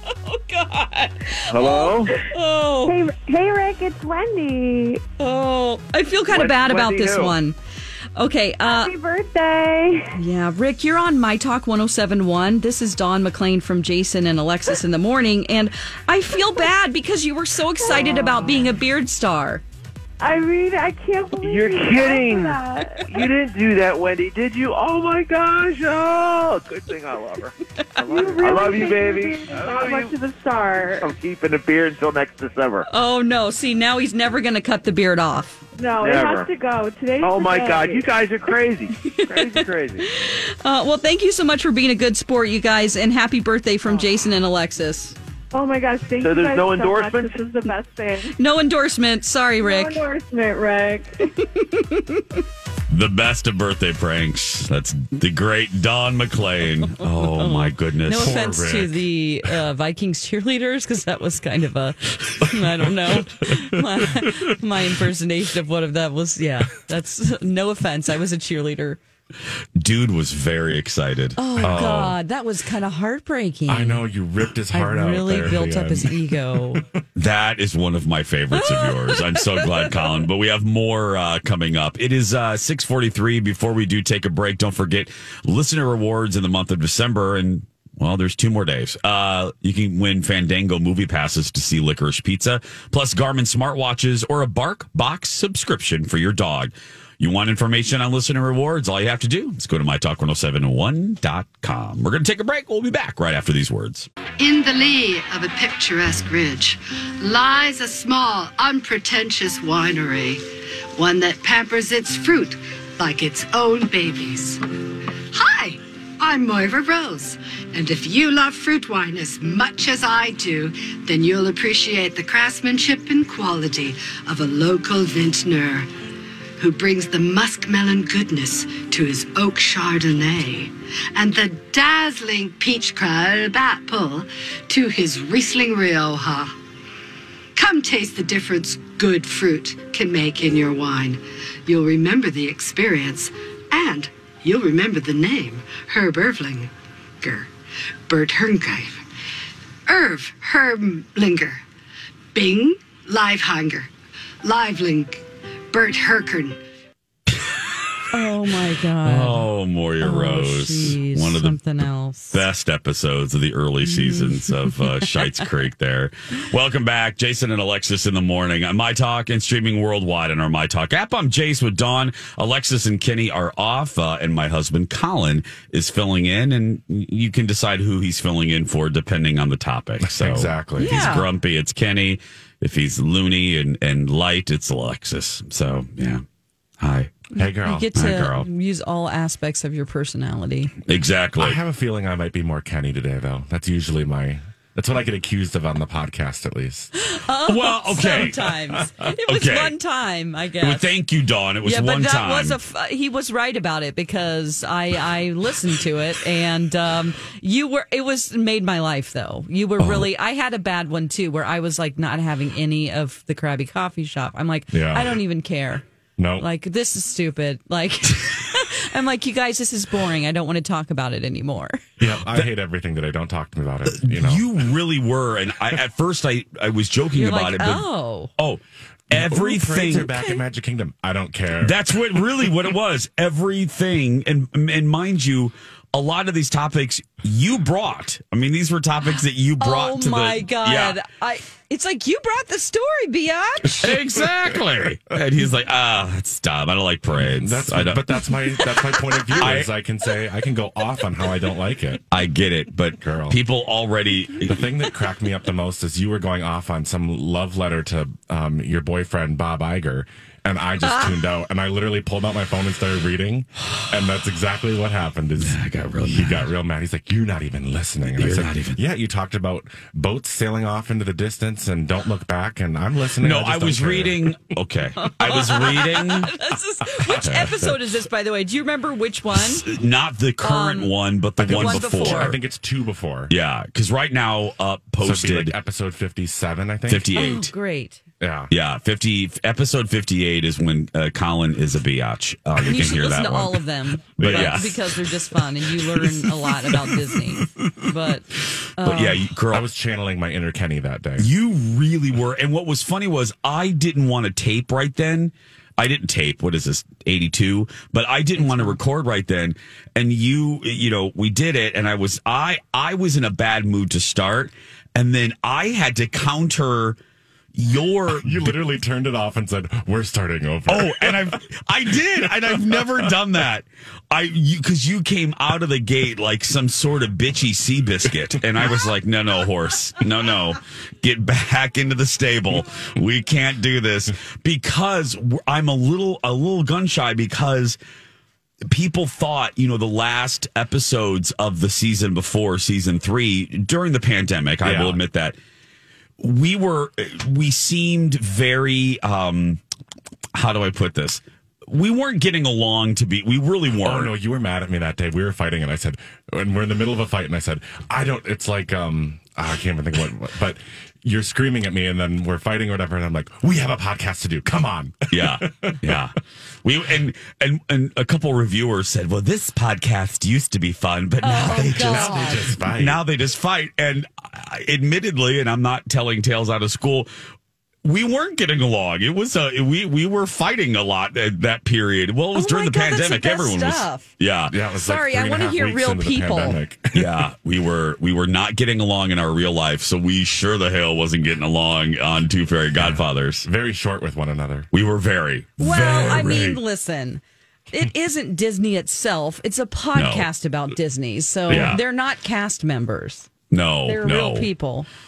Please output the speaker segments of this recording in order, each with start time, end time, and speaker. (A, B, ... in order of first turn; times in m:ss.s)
0:00.2-0:03.0 A
0:01.5-0:02.1 B
0:02.8-0:05.0 C
0:05.2-0:07.6 A
0:06.3-0:07.4 B
0:08.2-0:08.9 A
0:08.6-0:10.2 C
0:10.1-0:19.6 A
0:17.8-0:18.8 C
0:20.2-0:23.1 C
0:21.4-0:30.1 B
0:28.0-0:31.1 C
0:31.0-0:32.9 B
0:32.9-0:35.6 A
0:35.8-0:38.1 C
0:36.0-0:36.5 B
0:37.2-0:40.0 B
0:40.2-0:45.2 A
0:45.5-0:48.3 C
0:46.2-0:47.5 B
0:48.4-0:50.0 A
0:49.6-0:51.2 C
0:51.6-0:52.2 A
0:52.9-0:58.4 D
0:56.9-1:09.0 A
0:58.1-0:59.1 E
1:09.8-1:12.0 D
1:11.4-1:14.0 A
1:11.6-1:12.2 E
1:13.7-1:17.0 E
1:14.7-1:16.8 A
1:17.2-1:44.1 D
1:18.5-1:19.9 A
1:44.4-1:50.4 F
1:51.0-1:54.6 F
1:55.3-2:05.9 F
2:06.6-2:16.5 F
2:17.6-2:27.5 F
2:28.1-2:29.0 F
2:29.9-2:31.6 F
2:32.3-2:33.9 F
2:34.4-2:36.6 F
2:37.3-2:37.5 D
2:38.1-2:39.4 A
2:39.0-3:06.2 D
2:40.0-2:42.4 A
2:43.8-2:45.0 A
3:00.0-3:01.1 E
3:00.8-3:01.2 A
3:06.8-3:07.1 D
3:07.4-3:07.9 E
3:07.4-3:10.7 A
3:07.9-3:08.5 D
3:10.8-3:11.6 D
3:11.4-3:16.9 E
3:17.0-3:20.9 A
3:17.4-3:18.5 D
3:19.2-3:19.7 D
3:20.6-3:22.6 D
3:21.6-3:35.8 A
3:29.8-3:30.1 D
3:34.7-3:35.2 E
3:36.2-3:36.4 E
3:36.4-3:41.8 A
3:42.0-3:44.5 E
3:43.8-3:50.1 D
3:47.2-3:48.3 A
3:49.1-3:51.8 E
3:51.6-4:01.0 D
3:59.6-4:03.9 A
4:03.8-4:08.0 D
4:03.8-4:04.9 E
4:07.2-4:12.0 E
4:09.4-4:09.7 D
4:12.1-4:14.6 D
4:13.0-4:13.4 E
4:14.4-4:34.6 E
4:20.8-4:21.1 A
4:25.4-4:26.5 D
4:28.1-4:28.8 D
4:33.2-4:36.3 D
4:35.0-4:39.7 A
4:37.0-4:37.8 E
4:37.1-4:37.4 D
4:39.3-4:42.4 D
4:40.4-4:40.9 A
4:41.4-4:43.3 E
4:41.4-4:42.4 A
4:43.3-4:45.5 D
4:45.0-4:47.4 E
4:46.9-4:47.4 D
4:47.2-4:48.0 A
4:48.2-4:48.5 E
4:48.5-4:53.6 D
4:52.6-4:59.2 A
4:54.2-4:54.9 D
4:54.2-4:54.8 E
4:56.0-4:57.7 D
4:58.8-4:59.7 D
4:59.5-5:01.3 E
5:01.2-5:17.0 D
5:08.4-5:08.8 A
5:17.5-5:18.6 D
5:18.1-5:21.4 E
5:20.7-5:37.8 D
5:22.1-5:23.1 E
5:28.3-5:28.7 E
5:38.7-5:45.3 D
5:44.6-5:45.0 E
5:46.2-5:49.6 D
5:50.3-5:54.1 D
5:53.8-6:06.0 E
6:05.1-6:17.1 D
6:11.2-6:12.4 A
6:11.4-6:13.0 E
6:17.8-6:24.5 D
6:22.3-6:24.1 A
6:24.5-6:27.3 E
6:24.8-6:26.6 A
6:26.9-6:33.5 D
6:32.7-6:34.7 E
6:34.7-6:36.6 D
6:35.6-6:43.3 A
6:39.9-6:40.3 D
6:41.5-6:41.8 D
6:41.5-6:41.8 E
6:43.5-6:44.5 D
6:43.8-6:44.9 A